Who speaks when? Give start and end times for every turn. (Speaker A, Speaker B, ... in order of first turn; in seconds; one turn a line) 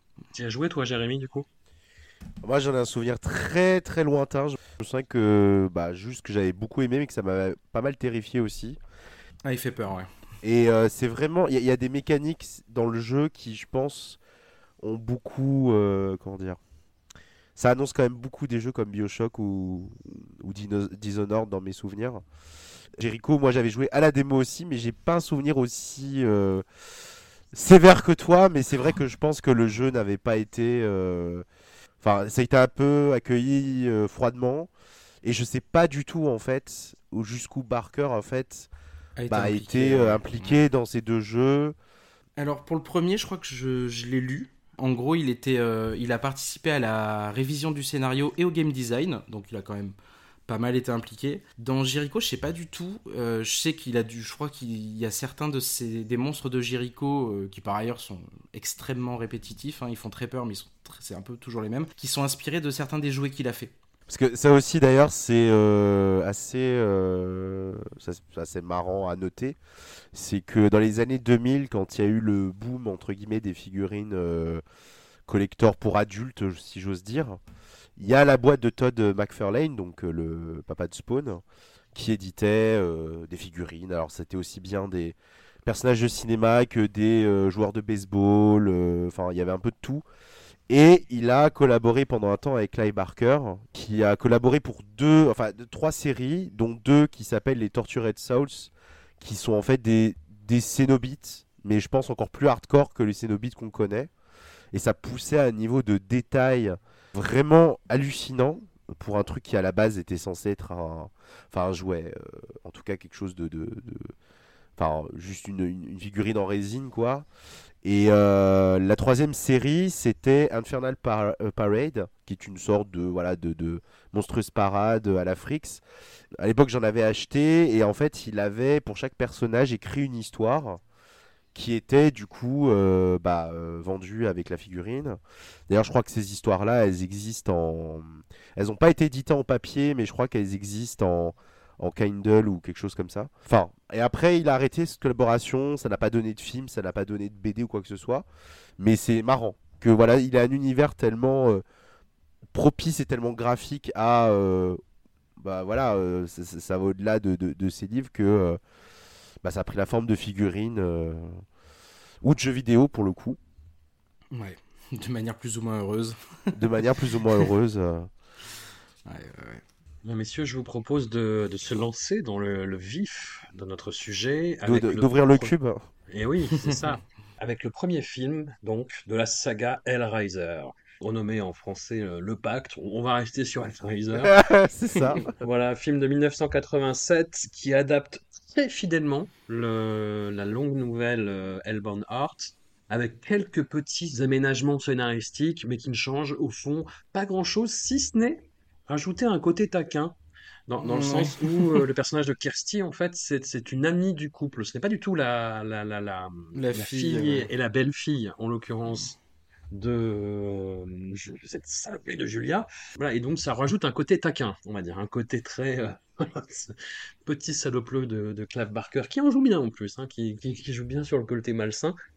Speaker A: 0.3-1.5
Speaker B: 2.4-8.8
Speaker C: 9.4-10.1
Speaker B: 10.4-14.2
Speaker B: 14.8-16.6
Speaker B: 17.6-22.2
Speaker B: 23.0-26.6
Speaker B: 27.5-31.4
Speaker B: 32.0-34.7
Speaker B: 35.2-38.7
Speaker C: 39.2-40.6
Speaker B: 39.3-41.8
Speaker C: 42.4-49.9
Speaker C: 50.5-63.7
Speaker B: 64.1-69.6
Speaker B: 70.1-74.6
Speaker B: 75.3-77.4
Speaker B: 78.0-81.4
Speaker B: 81.9-90.0
Speaker B: 90.7-104.1
Speaker B: 104.7-114.1
Speaker B: 114.8-117.3
Speaker B: 117.8-125.8
Speaker B: 126.4-130.8
Speaker B: 131.5-148.2
Speaker B: 148.8-151.6
Speaker B: 152.5-154.8
Speaker B: 155.4-158.6
Speaker B: 159.4-161.4
Speaker B: 162.2-163.4
Speaker C: 164.3-166.6
Speaker B: 166.5-168.1
Speaker C: 169.1-169.6
Speaker A: 170.0-175.5
Speaker B: 174.6-175.9
Speaker A: 176.1-184.4
Speaker B: 184.2-185.3
Speaker A: 185.1-200.2
Speaker A: 200.7-209.2
Speaker C: 200.8-201.8
Speaker C: 206.5-207.5
Speaker A: 209.7-221.9